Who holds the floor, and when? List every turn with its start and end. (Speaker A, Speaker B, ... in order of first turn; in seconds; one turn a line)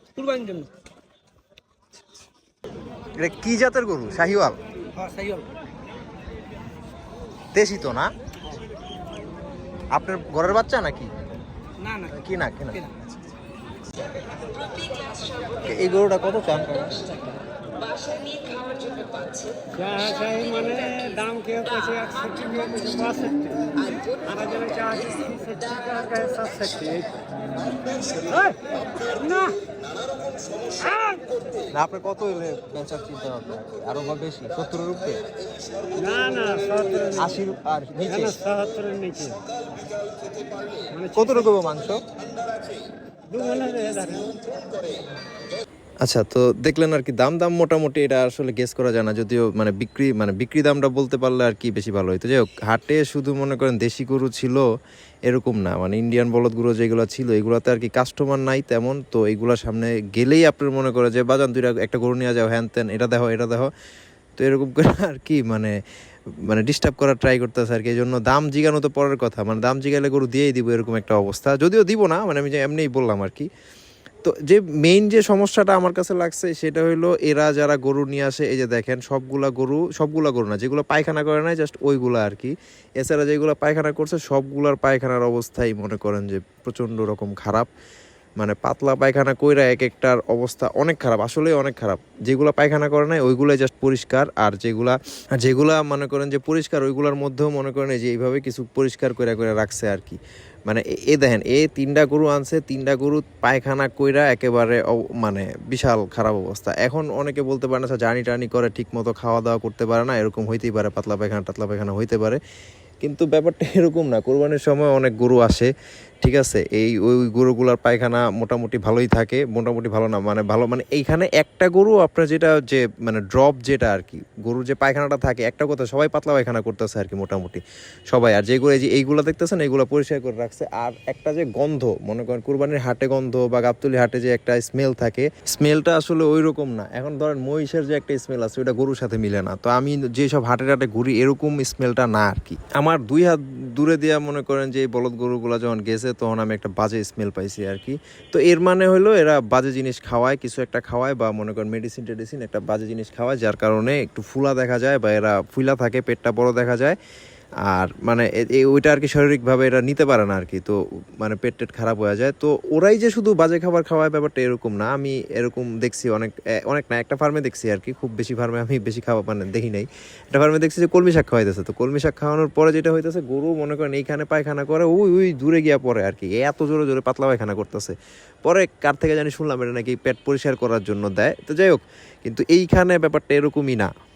Speaker A: 0.2-0.7
Speaker B: 3.2-4.6
Speaker A: 5.0-5.5
Speaker B: 7.5-8.1
Speaker B: 9.9-11.1
Speaker B: 12.0-12.9
Speaker B: 15.6-17.0
Speaker A: 19.7-27.3
Speaker A: 28.1-29.6
Speaker A: 30.8-31.2
Speaker B: 31.7-35.2
Speaker A: 35.9-37.4
Speaker B: 37.1-38.4
Speaker A: 38.1-39.4
Speaker A: 40.9-41.5
Speaker B: 41.1-42.0
Speaker A: 43.3-44.4
Speaker B: 46.0-54.7
Speaker B: 55.3-63.7
Speaker B: 64.4-65.8
Speaker B: 66.4-73.5
Speaker B: 74.2-87.7
Speaker B: 88.4-112.4
Speaker B: 113.0-115.7
Speaker B: 116.2-157.0
Speaker B: 157.6-183.9